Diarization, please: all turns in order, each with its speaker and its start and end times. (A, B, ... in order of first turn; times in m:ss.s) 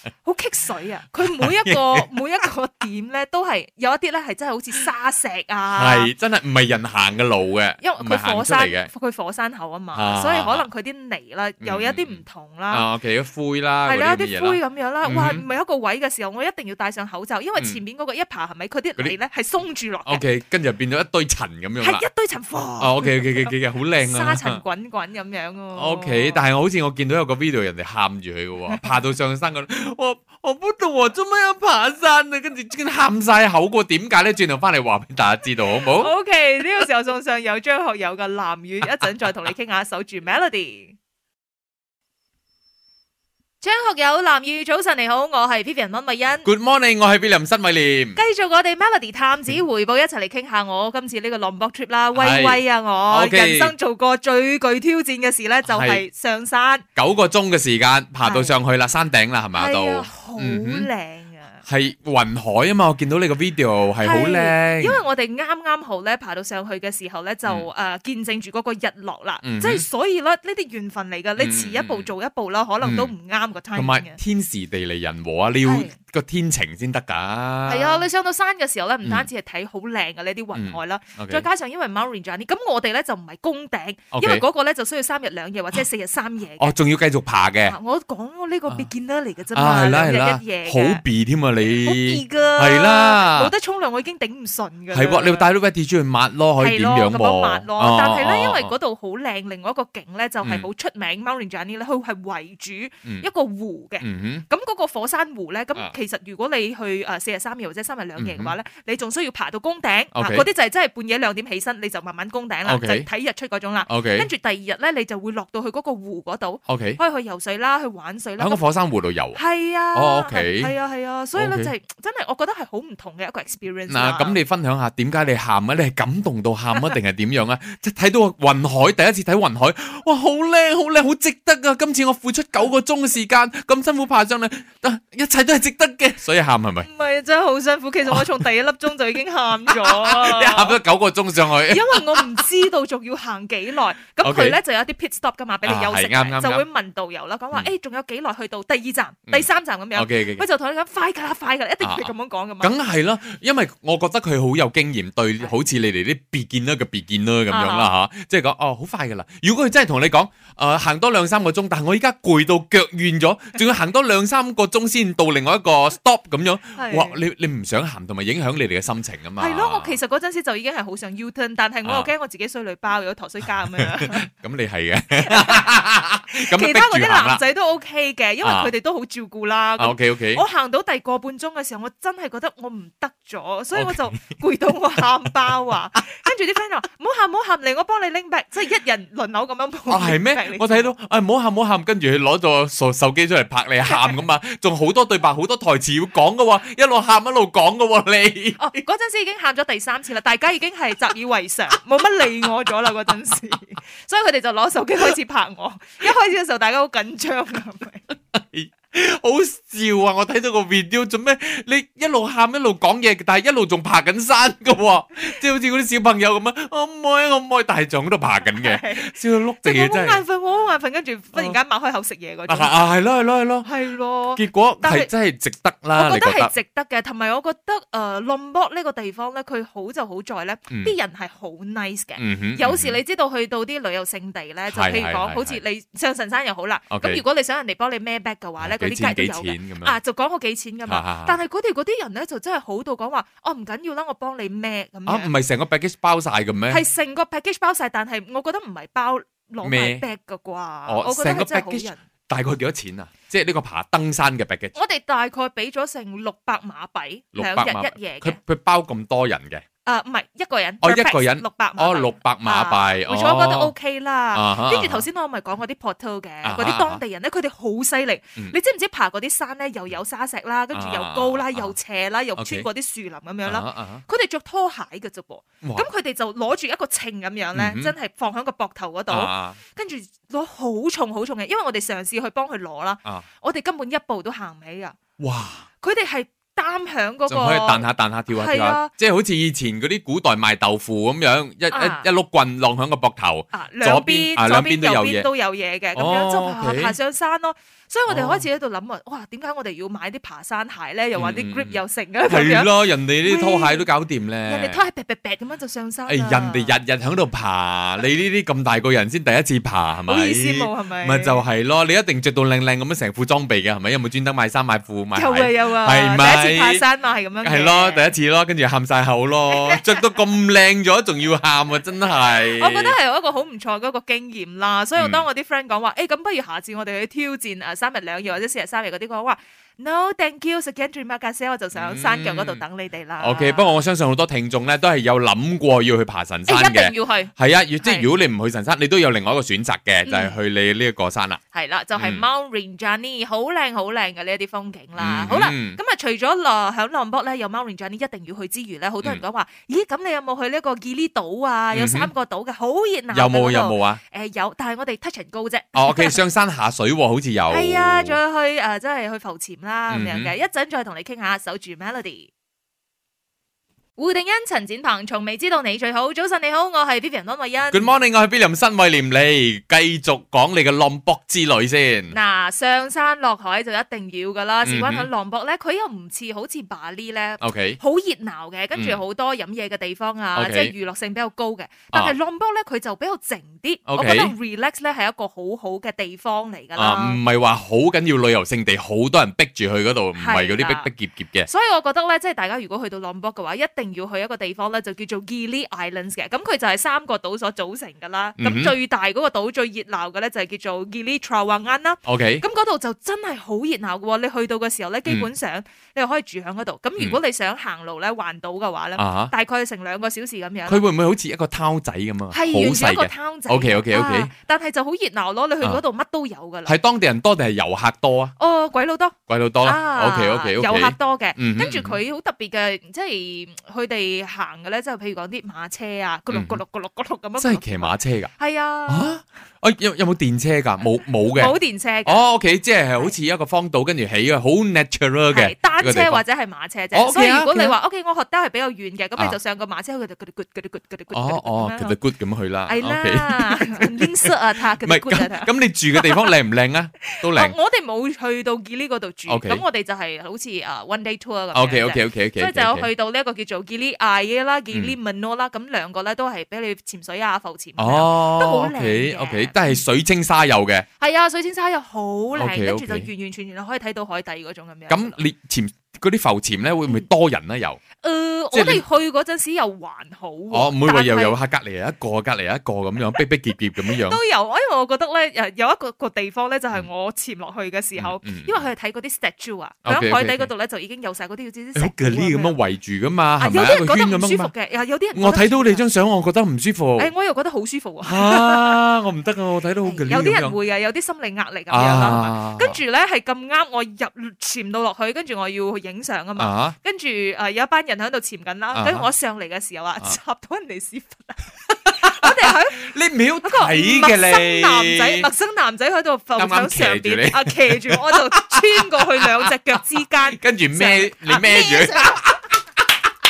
0:00.2-0:06.1 A
0:01.2-0:02.2 B
0:05.8-0:08.9 B
0:07.8-0:12.9 A
0:09.9-0:10.7 B
0:11.6-0:15.4 B
0:13.8-0:20.2 A
0:20.1-0:22.1 B
0:21.8-0:26.4 A
0:22.8-0:24.6 B
0:25.8-0:36.1 B
0:35.7-0:41.0 A
0:43.6-0:46.5 A
0:46.4-0:48.2 B
0:48.2-0:56.8 A
0:52.2-0:53.7 B
0:55.7-0:56.0 B
0:57.0-1:00.9 B
0:58.2-0:58.6 A
0:59.6-1:01.6 A
1:01.7-1:05.0 B
1:04.0-1:14.2 A
1:09.4-1:09.9 B
1:11.4-1:12.1 B
1:12.8-1:13.1 B
1:13.7-1:18.0 B
1:15.6-1:15.9 A
1:17.7-1:26.7 A
1:20.5-1:21.5 B
1:24.1-1:24.4 B
1:26.6-1:27.8 B
1:27.7-1:31.0 A
1:29.5-1:33.5 B
1:31.8-1:35.5 A
1:34.9-1:38.7 B
1:36.6-1:58.6 A
1:40.4-1:40.7 B
1:44.0-1:44.4 B
1:48.2-1:48.6 B
1:50.1-1:50.5 B
1:52.6-1:53.1 B
1:53.9-1:54.3 B
1:56.7-1:57.0 B
1:58.4-1:59.4 B
1:59.4-2:04.4 A
1:59.9-2:00.7 B
2:01.4-2:01.7 B
2:03.9-2:16.9 B
2:16.8-2:20.8 A
2:18.1-2:18.4 B
2:19.7-2:22.4 B
2:21.7-2:32.7 A
2:24.2-2:24.6 B
2:25.6-2:26.6 B
2:29.3-2:30.4 B
2:31.8-2:50.0 B
2:37.5-2:37.9 A
2:46.8-2:47.2 A
2:49.4-2:54.3 A
2:51.8-2:52.1 B
2:53.7-2:57.4 B
2:55.2-2:55.7 A
2:56.4-3:10.9 A
2:58.4-2:58.7 B
2:59.8-3:00.4 B
3:03.7-3:04.2 B
3:09.9-3:18.8 B
3:13.8-3:14.2 A
3:18.6-3:28.0 A
3:28.3-3:40.2 B
3:38.4-3:42.8 A
3:42.5-3:43.7 B
3:43.6-3:45.1 A
3:44.4-3:46.5 B
3:45.9-4:05.3 A
3:52.2-3:53.0 B
3:54.7-3:55.6 B
3:56.9-3:57.2 B
3:58.6-4:00.0 B
4:00.8-4:01.4 B
4:05.1-4:06.8 B
4:06.7-4:12.0 A
4:09.6-4:10.0 B
4:10.9-4:14.8 B
4:14.7-4:18.4 A
4:17.3-4:19.6 B
4:19.8-4:45.0 A
4:20.8-4:23.7 B
4:24.3-4:25.1 B
4:26.4-4:27.0 B
4:30.7-4:31.7 B
4:32.4-4:32.7 B
4:33.5-4:34.0 B
4:35.6-4:35.9 B
4:37.5-4:37.9 B
4:39.1-4:39.6 B
4:45.2-4:45.6 B
4:45.8-4:48.9 A
4:47.3-4:55.3 B
4:51.7-4:52.1 A
4:53.5-5:03.9 A
4:56.0-4:56.9 B
4:58.1-4:58.5 B
5:01.2-5:04.8 B
5:04.5-5:06.8 A
5:06.1-5:16.8 B
5:10.1-5:11.4 A
5:15.1-5:18.1 A
5:17.4-5:23.0 B
5:22.6-5:33.8 A
5:25.0-5:25.3 B
5:31.7-5:32.6 B
5:33.2-5:41.4 B
5:36.5-5:38.1 A
5:40.1-5:40.4 A
5:41.5-5:56.2 A
5:42.0-5:42.3 B
5:45.0-5:45.8 B
5:51.7-5:52.1 B
5:53.1-5:54.0 B
5:55.8-5:58.2 B
5:57.5-6:02.3 A
5:59.9-6:00.3 B
6:04.0-6:07.9 A
6:07.7-6:12.2 B
6:12.1-6:27.2 A
6:14.6-6:15.1 B
6:17.4-6:17.8 B
6:18.8-6:19.0 B
6:20.4-6:20.7 B
6:23.9-6:24.3 B
6:26.8-6:31.5 B
6:30.2-6:30.9 A
6:31.5-6:50.8 A
6:38.4-6:38.7 B
6:42.1-6:42.4 B
6:49.0-6:49.3 B
6:50.7-6:54.3 B
6:52.3-6:56.8 A
6:56.7-6:58.4 B
6:58.4-7:09.1 A
6:59.3-7:02.0 B
7:06.3-7:06.6 B
7:07.4-7:08.3 B
7:08.9-7:16.2 B
7:11.4-7:12.3 A
7:15.3-7:22.0 A
7:16.9-7:17.8 B
7:21.1-7:27.6 B
7:22.7-7:26.3 A
7:27.1-7:39.7 A
7:29.3-7:29.6 B
7:31.5-7:32.9 B
7:34.7-7:35.0 B
7:37.8-7:40.9 B
7:41.0-7:45.2 A
7:42.3-7:43.1 B
7:44.9-7:47.8 B
7:48.0-7:51.4 A
7:48.5-7:48.8 B
7:50.5-7:54.2 B
7:53.9-8:02.6 A
7:58.0-7:58.6 B
7:59.8-8:00.5 B
8:01.8-8:04.5 B
8:03.4-8:05.8 A
8:05.1-8:07.1 B
8:07.0-8:08.8 A
8:08.0-8:10.6 B
8:09.9-8:21.5 A
8:11.7-8:12.8 B
8:16.4-8:16.8 B
8:18.7-8:19.1 B
8:21.8-8:25.3 B
8:22.1-8:22.9 A
8:23.4-8:32.2 A
8:26.4-8:29.5 B
8:30.4-8:32.9 B